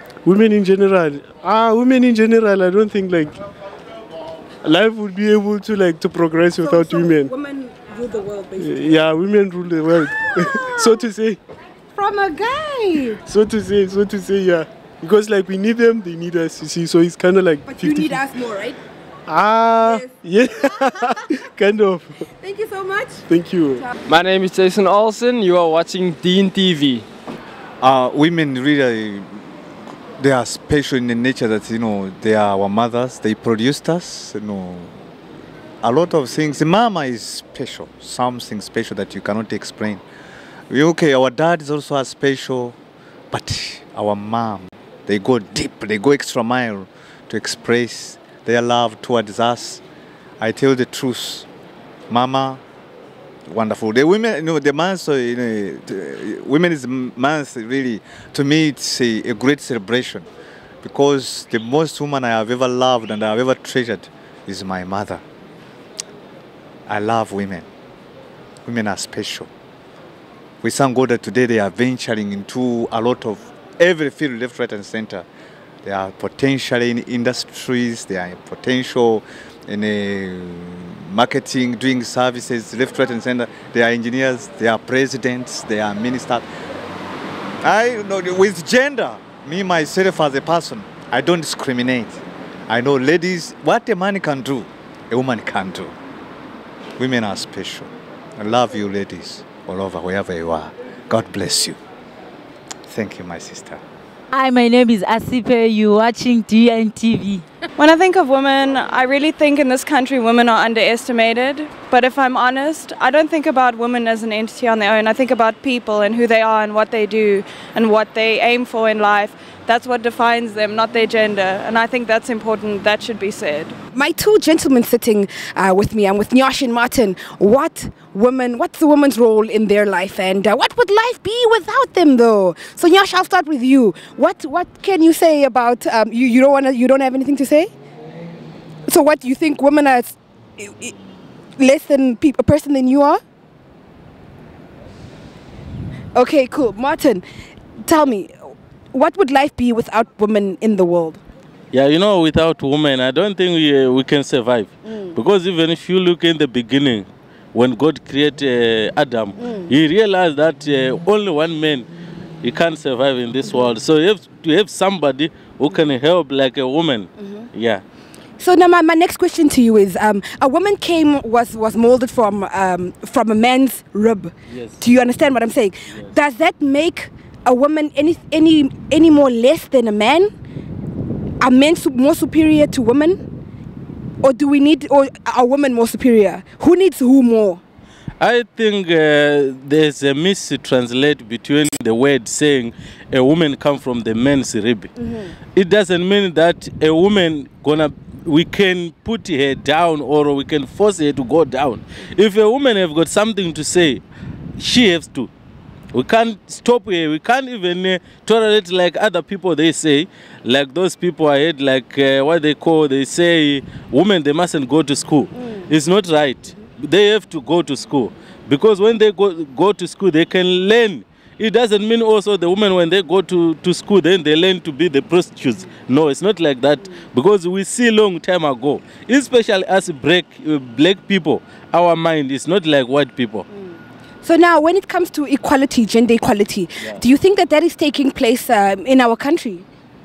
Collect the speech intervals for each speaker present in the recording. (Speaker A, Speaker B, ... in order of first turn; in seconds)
Speaker A: 0.2-3.4, 4.6-7.3, 8.6-11.4, 13.3-18.2, 19.3-22.1, 23.3-23.9
Speaker B: 6.5-8.9, 10.2-11.0, 11.9-13.2, 17.6-18.8, 19.8-20.9, 22.4-23.2, 123.9-137.7, 138.9-140.9, 141.6-143.2, 146.1-147.2, 147.8-151.2, 154.8-155.2, 159.4-159.7, 167.2-167.5, 168.4-180.3, 181.4-183.3, 184.2-187.6, 195.0-195.3, 233.5-239.6
Speaker C: 24.1-27.0
Speaker D: 27.8-29.4, 30.2-35.0, 35.8-40.0, 40.7-42.8, 43.3-49.8, 50.4-51.5, 52.1-52.6, 53.5-60.3, 60.8-65.2, 66.9-67.6, 68.6-69.5, 70.6-75.2, 75.8-86.4, 87.6-95.9, 97.0-101.8, 102.9-103.8
Speaker E: 104.3-107.4
Speaker F: 107.8-123.8
Speaker G: 151.7-161.8, 162.4-167.8, 174.5-174.8, 188.2-194.9, 195.5-204.0, 204.6-205.3, 205.9-233.4